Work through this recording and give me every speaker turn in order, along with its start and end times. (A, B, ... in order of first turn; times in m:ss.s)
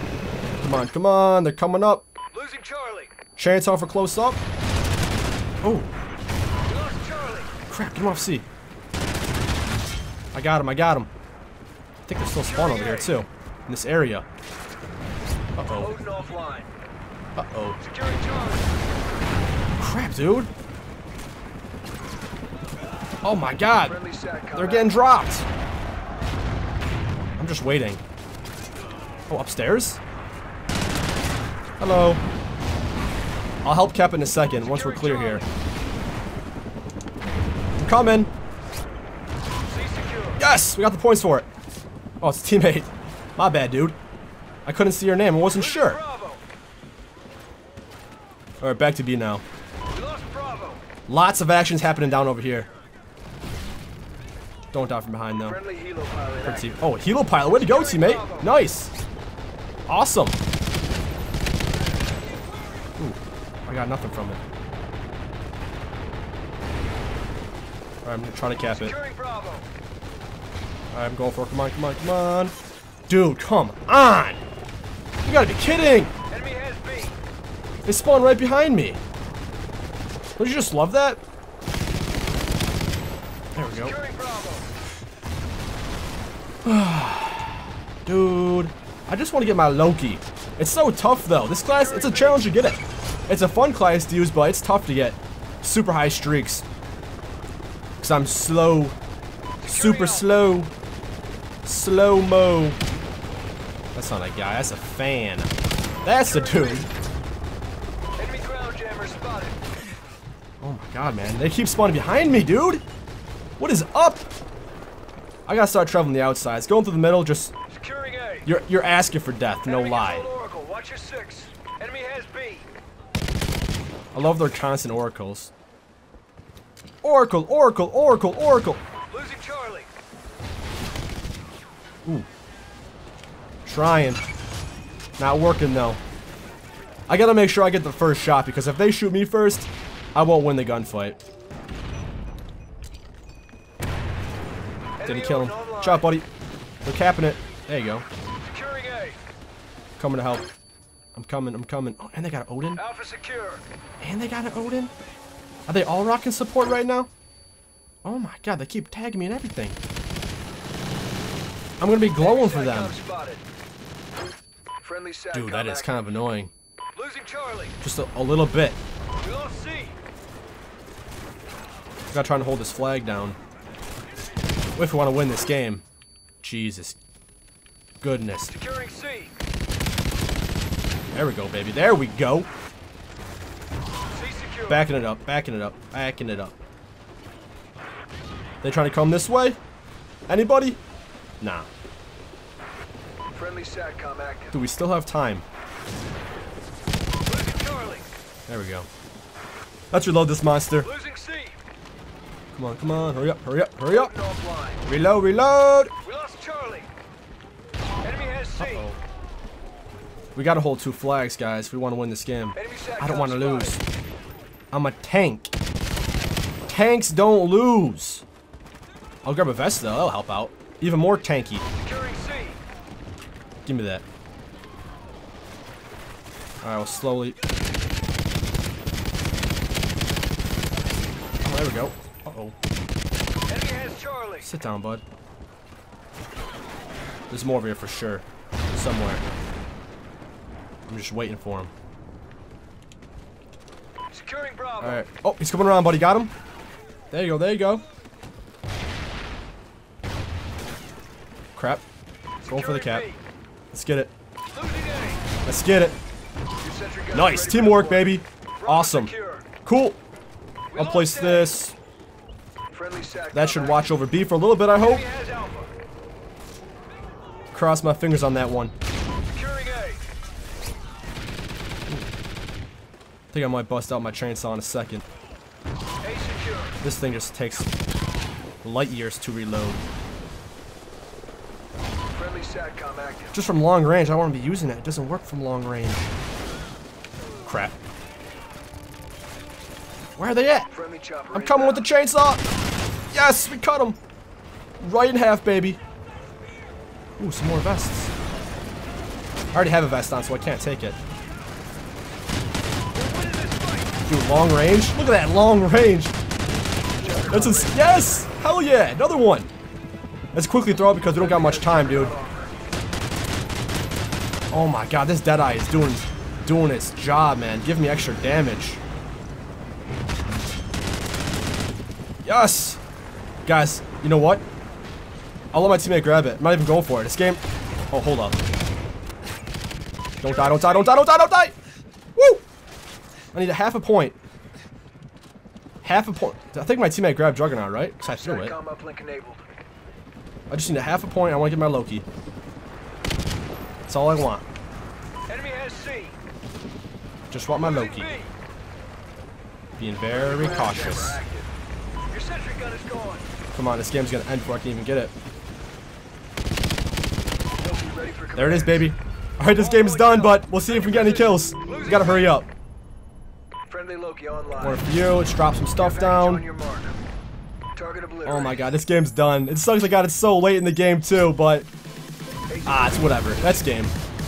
0:00.6-0:02.0 A
0:02.3-0:03.1 B
0:03.4-0:04.4 A
0:05.6-0:05.9 A
0:06.6-0:07.6 B
0:07.7-0:08.4 A
0:10.3-0:11.1 A
0:12.0-0:14.2 A
0:12.4-0:13.1 B
0:15.6-0:16.0 A
0:15.8-0:16.7 B
0:17.4-0:17.8 A
0:17.8-0:18.8 B
0:19.8-0:20.5 A
0:23.2-0:24.0 A
0:23.8-0:25.0 B
0:24.5-0:25.5 A
0:27.4-0:28.0 A
0:29.3-0:30.0 A
0:31.8-0:32.2 A
0:33.6-0:35.4 A
0:34.6-0:35.4 B
0:37.8-0:38.3 A
0:39.7-0:40.4 B
0:40.4-0:41.5 A
0:42.2-0:44.0 A
0:44.6-0:46.0 A
0:45.5-0:46.4 B
0:48.6-0:49.4 A
0:49.9-0:50.8 B
0:51.1-0:52.7 A
0:54.7-0:55.6 A
0:55.4-0:56.8 B
0:56.4-0:58.9 A
0:57.6-0:58.4 B
0:59.9-1:00.4 A
1:03.0-1:04.4 A
1:08.0-1:08.9 A
1:08.7-1:09.7 B
1:10.9-1:12.5 A
1:13.1-1:14.4 A
1:15.2-1:16.1 A
1:16.3-1:17.2 B
1:17.8-1:19.0 A
1:20.4-1:21.2 A
1:23.5-1:23.9 A
1:23.7-1:24.7 B
1:26.6-1:27.4 A
1:28.0-1:36.6 A
1:31.7-1:32.4 B
1:38.0-1:39.0 A
1:39.6-1:40.3 B
1:39.6-1:40.7 A
1:41.6-1:42.8 A
1:43.9-1:45.5 A
1:46.0-1:46.9 A
1:46.2-1:46.9 B
1:48.2-1:49.6 B
1:50.6-1:52.8 A
1:53.6-1:54.3 A
1:55.4-1:57.5 A
1:57.7-1:58.5 B
1:58.4-2:00.3 A
1:59.6-2:02.7 B
2:04.1-2:05.5 A
2:07.0-2:08.8 A
2:09.1-2:09.9 B
2:13.6-2:14.2 A
2:15.2-2:16.0 A
2:17.1-2:21.2 A
2:25.0-2:26.1 B
2:25.0-2:26.3 A
2:26.8-2:28.0 A
2:28.4-2:29.2 B
2:30.0-2:30.5 A
2:31.1-2:32.8 A
2:32.8-2:33.6 B
2:34.0-2:34.9 A
2:35.7-2:37.1 A
2:38.0-2:39.8 A
2:41.8-2:42.9 A
2:42.2-2:43.4 B
2:44.8-2:46.0 B
2:45.3-2:46.5 A
2:46.9-2:47.7 B
2:47.8-2:48.8 A
2:49.2-2:50.0 B
2:52.1-2:53.4 A
2:54.8-2:55.8 A
2:56.4-2:57.0 A
2:58.0-2:58.5 A
2:58.5-2:59.3 B
3:01.1-3:02.5 A
3:04.1-3:04.8 B
3:04.7-3:06.6 A
3:08.6-3:09.6 A
3:10.3-3:10.8 A
3:11.4-3:11.7 A
3:13.3-3:14.5 B
3:14.5-3:15.4 A
3:17.2-3:18.1 B
3:18.5-3:18.9 A
3:19.9-3:20.9 A
3:20.8-3:21.6 B
3:22.5-3:24.1 A
3:23.9-3:24.8 B
3:24.8-3:25.9 A
3:26.0-3:26.9 B
3:28.0-3:28.8 B
3:28.6-3:29.0 A
3:30.3-3:33.8 A
3:32.6-3:33.8 B
3:34.7-3:35.5 A
3:36.7-3:38.2 A
3:39.2-3:41.6 A
3:41.7-3:42.6 B
3:43.6-3:44.0 A
3:46.6-3:47.4 A
3:51.4-3:52.5 A
3:53.5-3:54.4 B
3:54.4-3:55.0 A
3:57.3-3:59.2 A
4:00.9-4:01.7 A
4:04.1-4:05.0 B
4:04.8-4:06.3 A
4:07.1-4:07.8 A
4:11.5-4:11.8 A
4:12.4-4:13.0 A
4:12.4-4:13.2 B
4:13.7-4:14.1 A
4:14.5-4:15.2 B
4:15.4-4:16.0 A
4:16.6-4:19.5 B
4:17.1-4:19.1 A
4:19.6-4:20.0 A
4:20.7-4:21.5 B
4:20.7-4:21.8 A
4:22.7-4:23.8 B
4:23.3-4:25.0 A
4:24.8-4:25.7 B
4:27.5-4:28.7 A
4:29.3-4:30.0 B
4:33.3-4:35.0 A
4:36.0-4:36.8 B
4:36.8-4:37.7 A
4:38.6-4:39.8 A
4:42.1-4:43.3 B
4:43.3-4:46.1 A
4:47.4-4:47.7 A
4:50.2-4:50.7 A
4:50.7-4:51.8 B
4:51.3-4:52.4 A
4:53.1-4:54.0 A
4:54.8-4:55.8 A
4:57.2-4:58.1 A
4:59.5-5:01.0 A
5:02.9-5:03.9 B
5:04.1-5:06.1 A
5:07.0-5:08.2 B
5:07.3-5:09.5 A
5:10.3-5:12.1 A
5:11.1-5:12.5 B
5:14.5-5:18.8 A
5:22.2-5:22.8 A
5:23.4-5:24.4 A
5:25.5-5:28.4 A
5:30.2-5:31.1 B
5:30.2-5:31.5 A
5:32.2-5:32.4 A
5:33.3-5:34.2 A
5:35.8-5:38.5 A
5:38.1-5:39.5 B
5:40.5-5:42.0 A
5:43.9-5:44.4 A
5:45.3-5:46.2 B
5:47.3-5:48.1 A
5:47.6-5:48.3 B
5:49.8-5:51.2 A
5:50.1-5:51.5 B
5:52.1-5:53.2 B
5:53.5-5:55.1 A
5:57.6-5:58.9 B
5:58.3-6:02.5 A
5:59.5-6:02.3 B
6:03.7-6:04.8 B
6:04.6-6:06.4 A
6:05.8-6:07.0 B
6:07.7-6:08.7 B
6:08.2-6:11.7 A
6:12.5-6:13.4 B
6:12.6-6:13.9 A